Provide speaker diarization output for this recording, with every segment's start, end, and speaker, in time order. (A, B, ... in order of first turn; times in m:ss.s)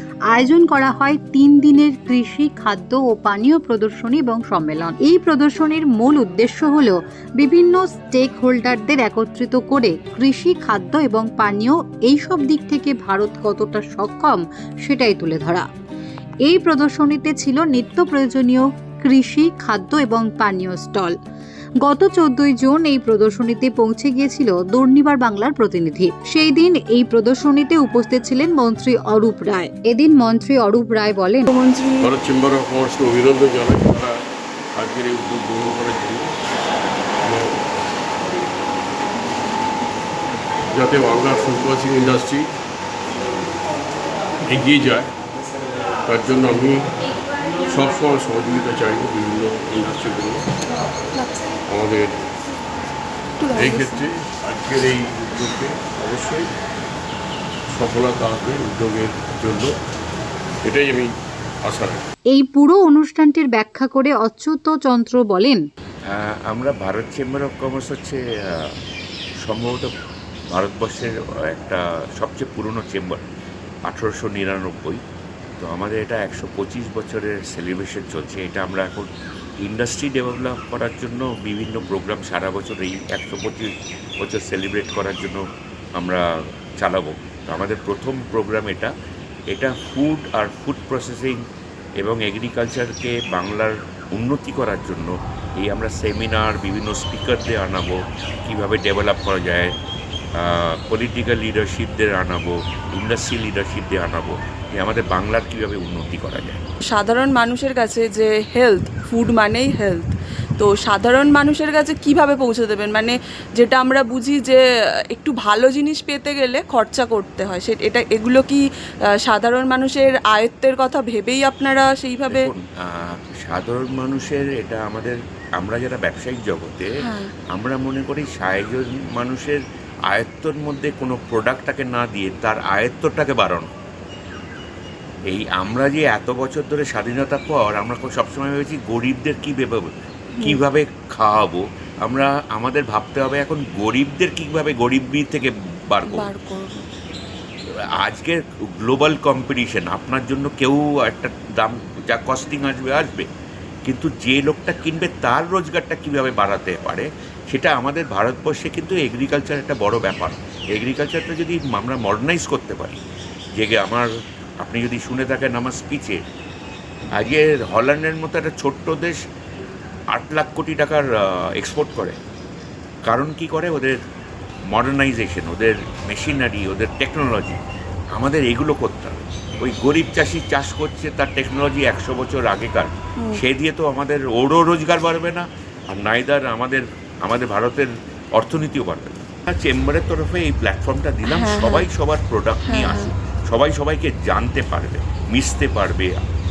0:00.3-0:15.6 A
0:16.4-0:21.1 A
0:21.8-0:31.5 A
0:31.5-0:32.1 B
0:32.0-0:34.1 C
0:34.7-0:36.3 C
0:37.2-0:37.5 C
0:40.7-0:42.5 C
0:44.5-0:45.1 C
0:46.0-0:46.8 C
0:47.7-0:50.5 C
0:51.7-0:52.2 C
0:53.5-0:56.5 C
0:57.7-0:59.7 C
1:00.6-1:01.1 C
1:01.6-1:02.0 C
1:02.3-1:05.6 A
1:06.1-1:08.7 D
1:09.4-1:09.9 D
1:10.5-1:13.2 D
1:13.9-1:15.0 D
1:15.6-1:19.1 D
1:19.6-1:23.7 D
1:24.2-1:25.4 D
1:26.0-1:26.2 D
1:26.8-1:28.9 D
1:29.5-1:31.4 D
1:32.0-1:39.7 D
1:40.4-1:46.6 D
1:46.9-1:58.6 B
1:59.2-2:02.5 B
2:02.3-2:06.9 D
2:07.0-2:07.3 B
2:07.5-2:13.7 D
2:15.3-2:26.3 D
2:26.0-2:26.8 B
2:28.0-2:33.3 D
2:33.8-2:43.0 D
2:43.6-2:44.1 D
2:44.6-2:46.2 D
2:47.2-2:49.2 D
2:50.1-2:51.0 D
2:51.6-2:52.2 D
2:53.1-2:54.0 D
2:54.7-2:57.6 D
2:58.2-3:16.2 D
3:11.3-3:11.9 B
3:12.7-3:13.1 B